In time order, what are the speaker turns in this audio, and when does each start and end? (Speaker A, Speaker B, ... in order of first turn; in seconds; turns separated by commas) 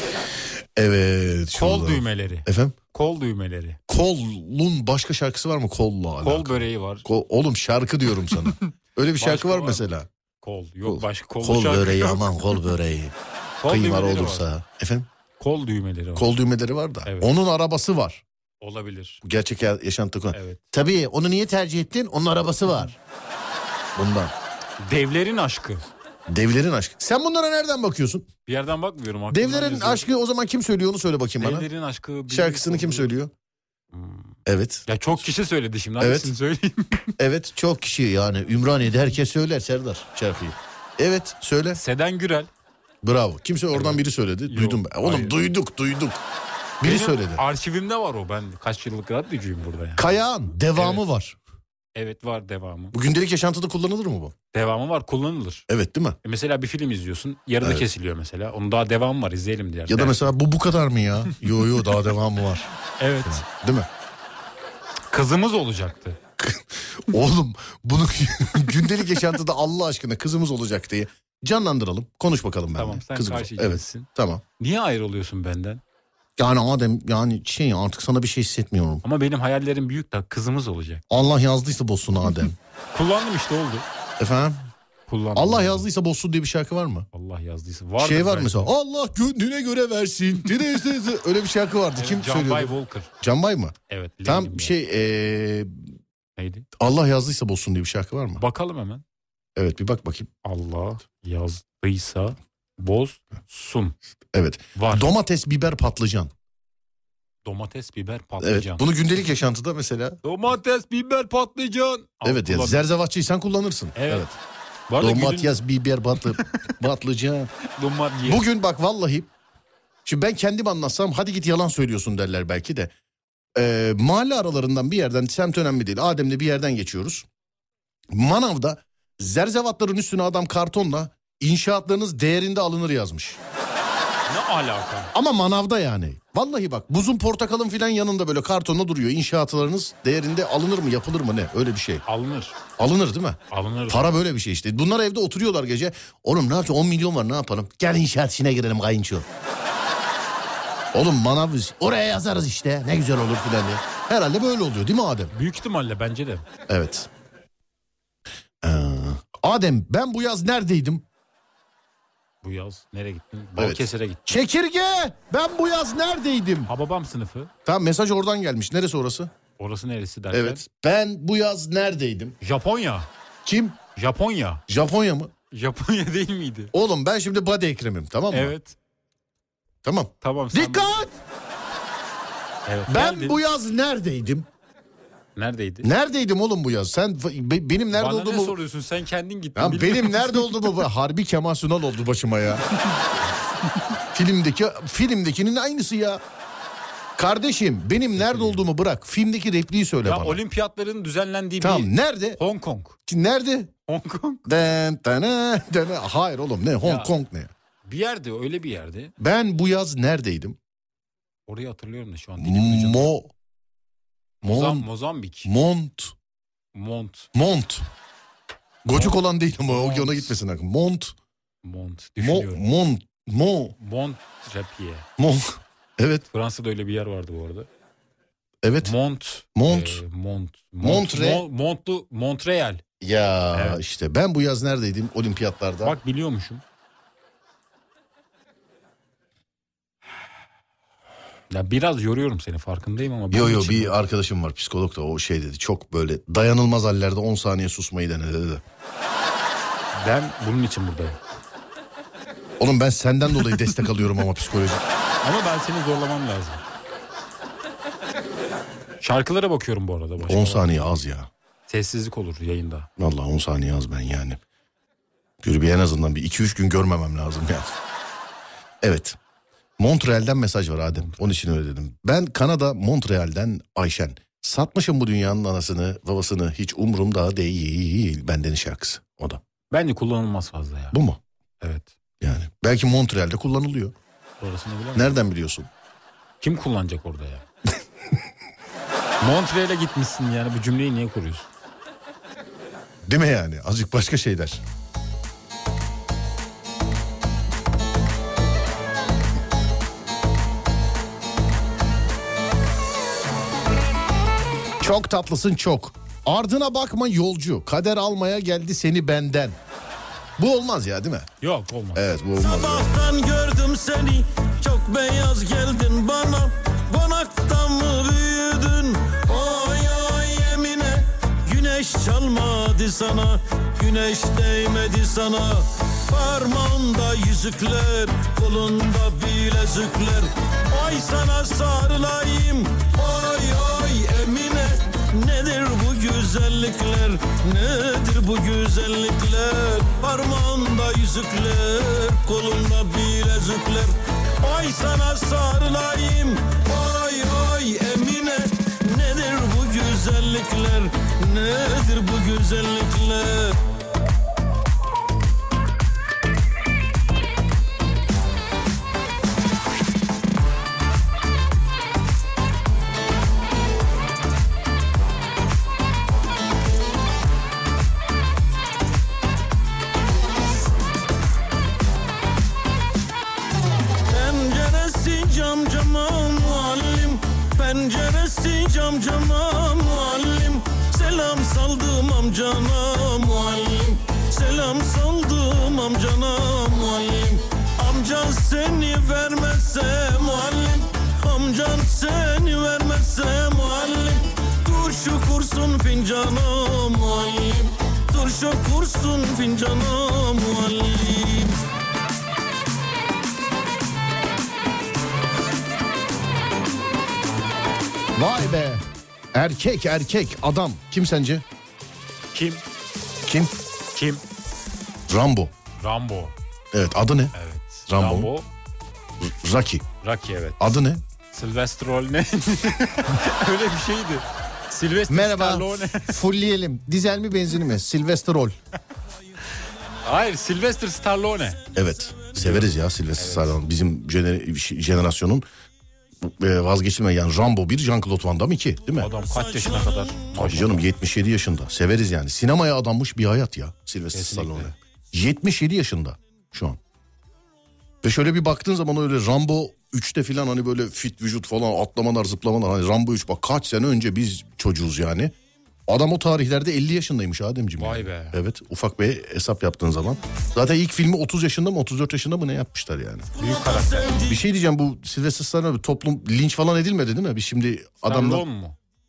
Speaker A: 0.8-2.8, Speaker B: 1.5-3.8, Speaker A: 3.9-10.1, Speaker B: 6.2-7.0, Speaker B: 9.2-9.9, Speaker B: 10.4-12.3, Speaker A: 10.8-13.1, Speaker B: 13.6-14.5, Speaker A: 13.7-15.1, Speaker B: 15.4-16.3, Speaker A: 16.1-18.2, Speaker B: 17.0-17.3, Speaker B: 18.6-19.2, Speaker A: 19.2-22.9, Speaker B: 20.3-20.6, Speaker A: 23.9-24.3, Speaker B: 24.8-25.9, Speaker A: 26.3-28.3, Speaker B: 28.4-30.1, Speaker A: 29.3-31.7, Speaker B: 31.4-33.1, Speaker A: 32.3-33.3, Speaker B: 33.9-37.1, Speaker A: 34.5-34.9, Speaker A: 36.0-36.3, Speaker A: 37.2-41.8, Speaker B: 41.7-42.5, Speaker A: 43.0-46.2, Speaker B: 43.7-45.4, Speaker A: 46.8-47.4, Speaker B: 46.8-51.0, Speaker A: 50.0-51.4, Speaker B: 51.9-53.0, Speaker A: 52.9-54.3, Speaker B: 54.5-55.6, Speaker A: 55.7-56.2, Speaker B: 56.2-60.2, Speaker A: 59.9-62.7, Speaker B: 63.0-63.4, Speaker A: 63.2-63.9, Speaker B: 65.1-66.2, Speaker A: 66.4-74.4, Speaker B: 72.7-75.8, Speaker A: 76.4-79.0, Speaker B: 79.0-81.0, Speaker A: 81.1-82.6, Speaker B: 82.9-83.8, Speaker A: 84.2-84.7, Speaker B: 85.1-85.8, Speaker A: 85.3-87.1, Speaker B: 87.1-88.7, Speaker A: 88.0-95.9, Speaker B: 92.0-93.1, Speaker B: 93.9-94.8, Speaker B: 96.4-96.7, Speaker A: 96.8-98.4, Speaker B: 98.4-99.0, Speaker A: 99.5-100.3, Speaker B: 100.4-104.0, Speaker A: 104.3-106.3, Speaker B: 104.7-105.1, Speaker B: 107.4-108.8, Speaker A: 108.4-110.2, Speaker B: 110.2-112.9, Speaker A: 112.2-114.3, Speaker B: 113.9-114.3, Speaker B: 114.9-115.6, Speaker A: 115.0-117.5, Speaker B: 117.7-118.4, Speaker A: 118.2-119.3, Speaker A: 120.0-122.9, Speaker A: 123.5-127.2, Speaker A: 128.1-133.4, Speaker B: 134.3-135.1, Speaker A: 135.1-142.0, Speaker B: 142.0-142.6, Speaker A: 142.8-149.3, Speaker B: 143.5-144.1, Speaker A: 150.9-155.3, Speaker B: 155.3-156.4, Speaker A: 156.7-157.1, Speaker A: 158.6-161.1, Speaker B: 162.4-164.3, Speaker A: 163.6-166.7, Speaker B: 166.7-167.5, Speaker A: 167.7-169.3, Speaker B: 169.6-170.6, Speaker A: 170.3-172.3, Speaker B: 172.4-173.1, Speaker A: 173.4-173.8, Speaker B: 173.9-174.6, Speaker A: 174.7-175.3, Speaker B: 175.5-176.7, Speaker A: 176.7-178.5, Speaker B: 178.3-178.8, Speaker A: 179.8-181.1, Speaker B: 180.2-180.9, Speaker B: 182.7-183.4, Speaker A: 182.9-184.5, Speaker B: 185.3-185.9, Speaker A: 185.8-188.6, Speaker B: 187.9-190.6, Speaker A: 189.5-192.6, Speaker A: 194.1-196.2, Speaker A: 197.2-200.4, Speaker B: 198.2-198.7, Speaker B: 200.0-203.0, Speaker A: 201.6-202.4, Speaker A: 203.1-203.7, Speaker B: 203.9-204.4, Speaker A: 204.4-207.5, Speaker B: 206.8-207.1, Speaker B: 207.8-209.1, Speaker A: 209.2-210.6, Speaker B: 211.5-213.1, Speaker A: 212.4-213.3, Speaker A: 214.4-214.9, Speaker B: 214.4-215.5, Speaker A: 215.4-216.1, Speaker B: 216.7-217.3, Speaker A: 217.3-217.8, Speaker A: 218.8-221.1, Speaker B: 218.9-220.3, Speaker B: 221.6-222.6, Speaker A: 222.2-223.7, Speaker B: 223.8-225.1, Speaker A: 225.2-226.2, Speaker B: 226.3-227.7, Speaker A: 228.6-228.9, Speaker B: 228.8-232.8, Speaker A: 229.5-230.0, Speaker A: 230.8-231.4, Speaker A: 233.0-235.9, Speaker B: 233.5-233.8, Speaker B: 235.8-236.6, Speaker B: 241.5-243.9, Speaker A: 243.3-248.6, Speaker B: 249.9-251.2, Speaker A: 252.6-254.8, Speaker B: 255.2-256.6, Speaker B: 259.0-260.9, Speaker A: 260.2-261.3, Speaker B: 261.7-262.9, Speaker A: 263.0-264.4, Speaker A: 265.4-267.7, Speaker A: 268.8-269.2, Speaker A: 269.8-279.4, Speaker B: 270.9-271.4, Speaker B: 279.7-281.0, Speaker A: 280.9-281.2, Speaker B: 281.6-281.9, Speaker A: 282.2-283.9, Speaker B: 284.4-285.1, Speaker A: 284.9-285.7, Speaker B: 286.4-287.4, Speaker B: 289.2-291.5, Speaker A: 293.0-294.6, Speaker A: 304.8-309.6, Speaker A: 310.4-311.3, Speaker B: 311.4-312.1, Speaker A: 311.9-312.9, Speaker C: 312.4-353.5, Speaker C: 374.1-401.6, Speaker A: 408.1-408.8, Speaker A: 409.3-411.4, Speaker B: 412.3-412.6, Speaker A: 413.2-413.5, Speaker B: 413.9-414.2, Speaker A: 415.1-415.5, Speaker B: 415.8-416.3, Speaker A: 416.7-417.3, Speaker B: 417.3-418.5, Speaker A: 417.9-418.3, Speaker A: 419.2-419.9, Speaker B: 420.0-420.8, Speaker A: 420.6-421.0, Speaker B: 421.3-426.1, Speaker A: 425.1-428.6, Speaker B: 430.0-431.6, Speaker A: 431.7-435.4, Speaker B: 432.3-433.6, Speaker A: 436.2-439.1, Speaker B: 439.0-440.9, Speaker C: 439.3-440.2, Speaker A: 440.3-446.8, Speaker B: 444.1-444.8, Speaker A: 448.0-455.3, Speaker A: 455.9-463.3, Speaker B: 457.8-458.4, Speaker B: 463.4-464.2, Speaker C: 463.4-464.4, Speaker A: 464.2-468.4, Speaker B: 468.0-468.8